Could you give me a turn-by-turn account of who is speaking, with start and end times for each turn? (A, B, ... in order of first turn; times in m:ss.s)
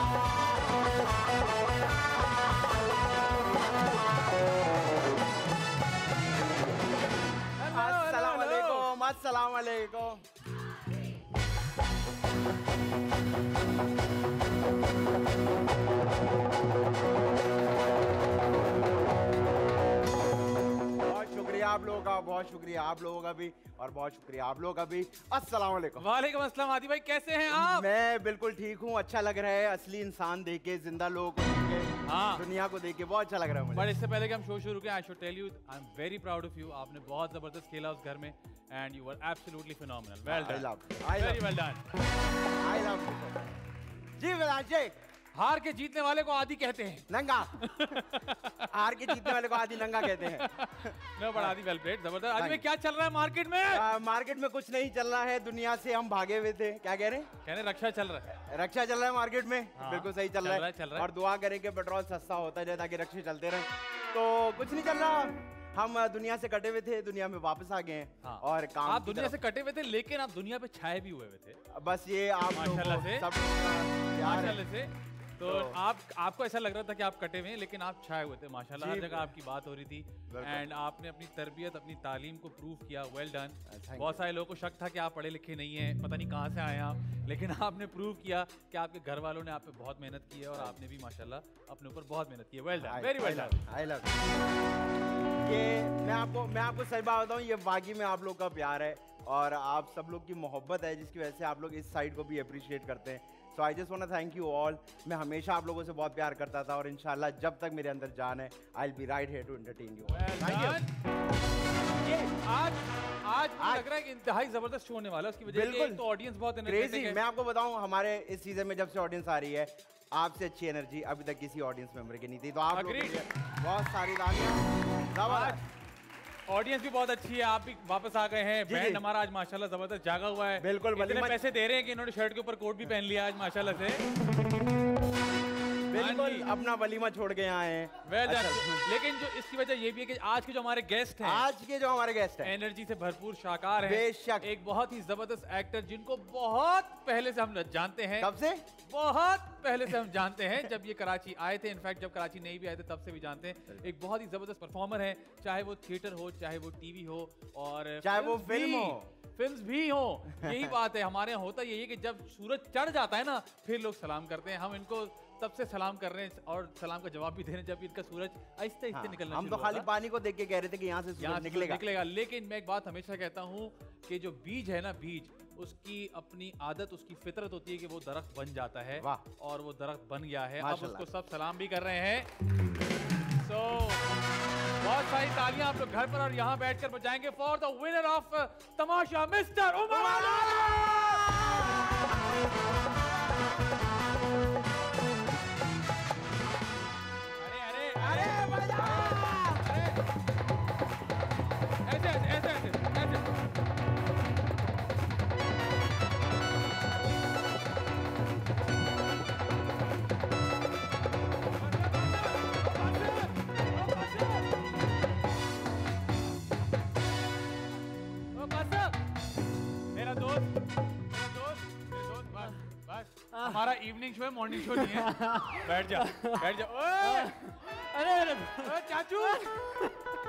0:07.6-0:08.9 A
0:07.7-0:10.2 B
0:21.0-0:26.0 B
0:26.0-0:27.9 A
0:27.5-0:33.9 B
0:32.1-0:32.5 A
0:33.7-0:41.8 A
0:40.3-0:41.4 B
0:42.6-0:43.5 B
0:44.2-0:45.0 B
0:45.3-0:53.9 A
0:47.1-0:48.0 B
0:48.7-0:51.6 B
0:52.4-0:52.6 B
0:53.7-0:57.3 B
0:57.4-0:58.3 A
0:58.3-1:09.4 B
0:59.8-1:01.1 A
1:08.2-1:11.6 A
1:11.7-1:14.6 B
1:12.5-1:13.3 A
1:14.2-1:33.6 A
1:15.4-1:15.8 B
1:18.8-1:19.3 B
1:20.3-1:20.7 B
1:23.7-1:24.2 B
1:32.8-1:34.2 B
1:35.4-1:50.8 B
1:50.1-1:50.9 A
1:52.0-1:57.2 A
1:53.6-1:53.9 B
1:55.5-1:56.0 B
1:56.6-2:05.6 B
2:02.7-2:03.2 A
2:05.3-2:05.6 A
2:06.5-2:14.0 A
2:08.7-2:09.0 B
2:10.6-2:11.4 B
2:15.9-2:18.9 B
2:15.9-2:16.5 A
2:18.0-2:21.5 A
2:21.2-2:22.5 B
2:22.4-2:28.3 A
2:23.8-2:24.5 B
2:28.2-2:28.6 B
2:28.9-2:49.9 A
2:38.0-2:39.1 B
2:40.4-2:40.7 B
2:48.9-2:51.8 B
2:51.2-3:02.3 A
2:59.0-2:59.2 B
3:00.6-3:01.1 B
3:03.3-3:04.1 A
3:04.8-3:10.8 A
3:09.9-3:12.2 B
3:17.4-3:20.0 A
3:18.0-3:19.7 B
3:21.8-3:23.3 A
3:31.6-3:34.6 A
3:38.3-3:39.0 A
3:39.9-3:40.6 A
3:41.1-3:47.5 A
3:44.7-3:49.9 C
3:48.6-3:49.7 A